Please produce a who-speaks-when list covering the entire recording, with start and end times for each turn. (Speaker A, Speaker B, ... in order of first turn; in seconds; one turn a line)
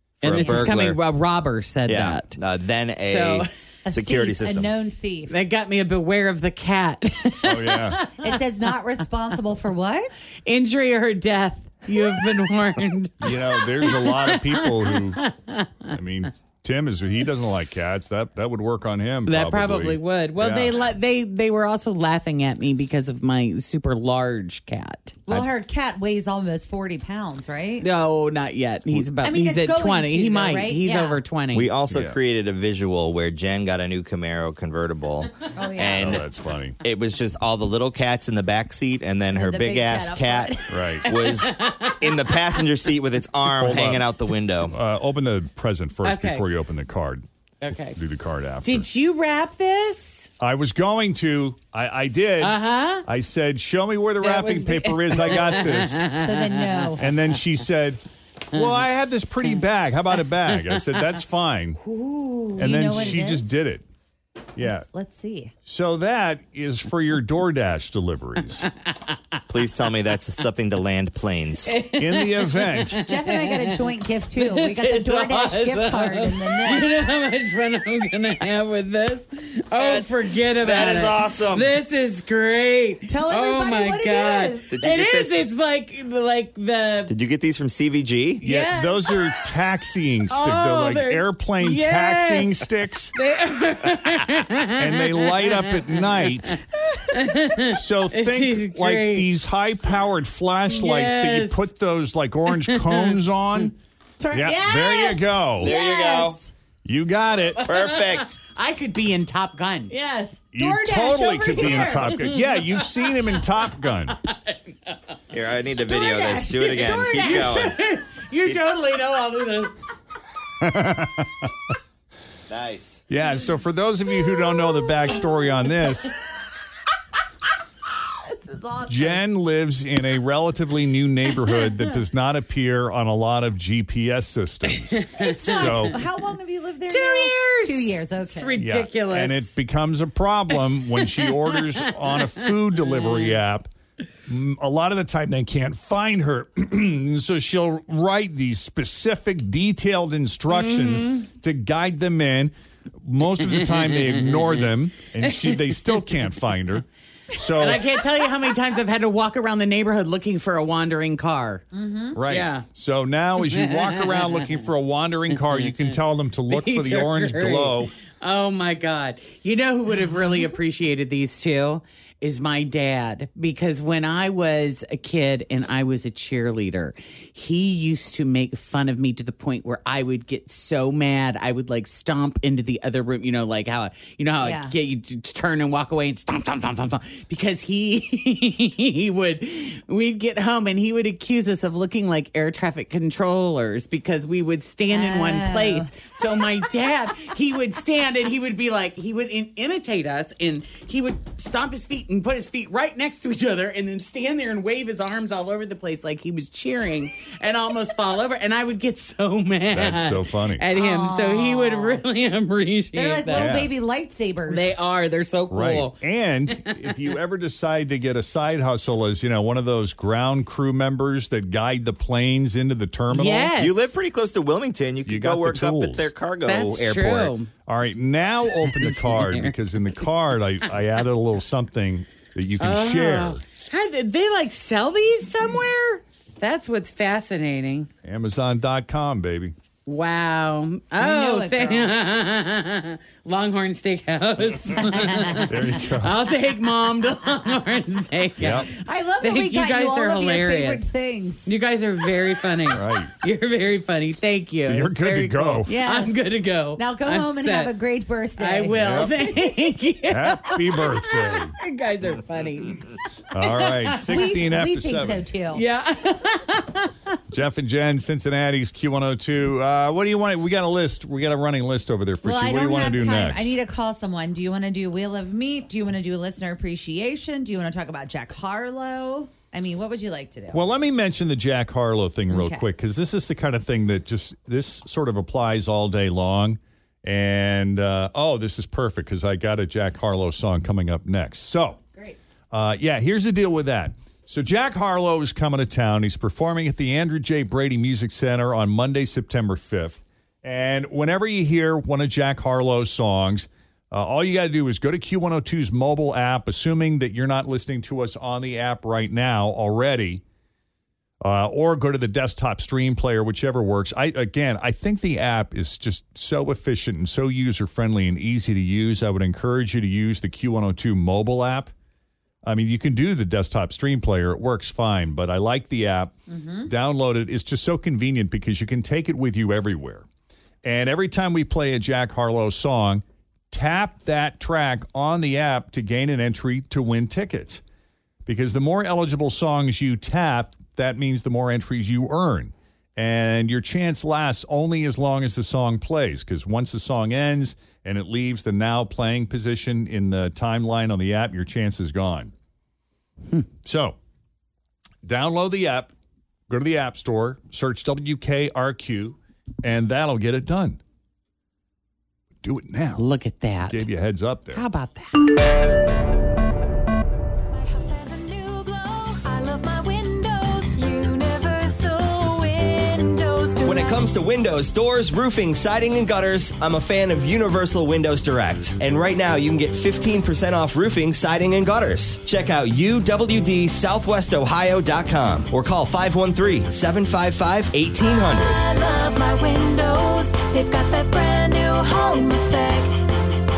Speaker A: 0.2-1.0
Speaker B: 0.2-2.4
Speaker C: 0.3-0.7
Speaker A: 1.9-4.8
Speaker B: 3.0-3.5
Speaker C: 3.9-5.4
Speaker B: 5.3-8.4
Speaker D: 7.4-8.0
Speaker C: 8.2-10.1
Speaker B: 10.5-15.7
Speaker D: 13.2-15.2
Speaker D: 15.9-20.8
Speaker B: 19.3-25.5
Speaker C: 25.3-27.9
Speaker B: 27.8-31.7
Speaker C: 29.2-31.2
Speaker A: 31.5-36.2
Speaker D: 31.9-32.2
Speaker C: 35.5-36.1
Speaker D: 36.0-36.8
Speaker A: 36.8-44.8
Speaker C: 39.3-41.0
Speaker D: 40.7-41.1
Speaker B: 41.1-42.3
Speaker D: 43.5-44.1
Speaker D: 44.7-47.2
Speaker B: 46.0-46.5
Speaker B: 47.6-48.0
Speaker D: 48.0-48.9
Speaker B: 48.6-50.3
Speaker D: 50.4-56.1
Speaker B: 52.4-53.1
Speaker B: 54.2-57.0
Speaker C: 56.1-57.1
Speaker D: 57.0-58.0
Speaker D: 58.5-61.8
Speaker B: 61.8-63.2
Speaker C: 62.6-63.5
Speaker D: 62.6-63.9
Speaker D: 64.6-64.9
Speaker C: 64.6-65.5
Speaker D: 65.7-68.7
Speaker A: 69.5-71.8
Speaker B: 71.6-87.2
Speaker D: 72.0-73.0
Speaker C: 73.0-77.0
Speaker A: 79.8-81.8
Speaker C: 83.1-84.7
Speaker A: 84.7-85.5
Speaker A: 87.1-88.4
Speaker B: 88.4-89.4
Speaker D: 88.4-93.1
Speaker B: 90.3-96.5
Speaker D: 94.8-96.6
Speaker B: 97.1-99.3
Speaker D: 97.7-103.8
Speaker B: 100.7-101.7
Speaker B: 102.5-103.2
Speaker C: 104.2-106.5
Speaker D: 104.3-105.8
Speaker B: 104.6-104.9
Speaker A: 105.6-106.4
Speaker D: 106.8-107.7
Speaker B: 107.6-110.0
Speaker A: 107.7-108.4
Speaker C: 109.9-112.2
Speaker D: 110.5-114.2
Speaker B: 111.1-114.9
Speaker A: 115.3-117.8
Speaker C: 115.9-117.5
Speaker B: 115.9-119.7
Speaker D: 120.6-121.5
Speaker A: 122.5-123.0
Speaker D: 123.1-126.1
Speaker C: 128.6-129.1
Speaker D: 128.9-136.0
Speaker B: 134.9-135.9
Speaker C: 135.2-138.6
Speaker B: 136.9-139.5
Speaker D: 138.6-143.7
Speaker B: 140.7-143.4
Speaker D: 144.3-157.8
Speaker B: 150.5-151.1
Speaker B: 153.8-154.1
Speaker B: 155.4-155.7
Speaker B: 157.6-161.7
Speaker C: 161.7-162.2
Speaker D: 162.1-167.9
Speaker B: 162.2-162.7
Speaker B: 163.4-164.5
Speaker B: 166.5-213.7
Speaker C: 184.4-184.7
Speaker C: 194.9-195.9
Speaker D: 209.7-210.7
Speaker C: 210.7-212.0
Speaker C: 212.9-214.7
Speaker D: 213.3-213.7
Speaker B: 214.5-216.0
Speaker D: 215.5-223.5
Speaker B: 216.6-216.8
Speaker B: 223.1-224.1
Speaker A: 223.6-227.3
Speaker D: 225.1-226.1
Speaker B: 226.4-227.5
Speaker D: 227.7-233.4
Speaker B: 228.7-229.5
Speaker B: 232.6-237.9
Speaker D: 238.0-239.5
Speaker B: 239.9-250.9
Speaker C: 241.0-241.9
Speaker D: 245.5-246.1
Speaker D: 248.4-248.7
Speaker C: 248.5-251.5
Speaker B: 251.4-257.8
Speaker D: 252.7-253.1
Speaker D: 254.6-255.7
Speaker C: 255.7-259.1
Speaker B: 258.4-264.4
Speaker D: 258.8-259.2
Speaker D: 260.1-261.5
Speaker D: 263.3-265.3
Speaker C: 264.1-265.6
Speaker B: 265.5-266.9
Speaker D: 267.3-273.6
Speaker C: 272.2-280.7
Speaker D: 280.5-291.8
Speaker C: 282.3-282.7
Speaker D: 292.5-310.2
Speaker D: 311.2-321.7
Speaker D: 322.5-330.1
Speaker C: 326.3-326.7
Speaker D: 330.6-337.6
Speaker D: 338.3-352.3
Speaker D: 353.6-354.0
Speaker D: 355.1-355.9
Speaker D: 356.5-360.8
Speaker D: 362.4-363.0
Speaker B: 363.0-363.9
Speaker D: 363.7-364.6
Speaker B: 364.5-365.2
Speaker E: 367.5-374.1
Speaker A: 373.6-388.6
Speaker E: 388.2-393.1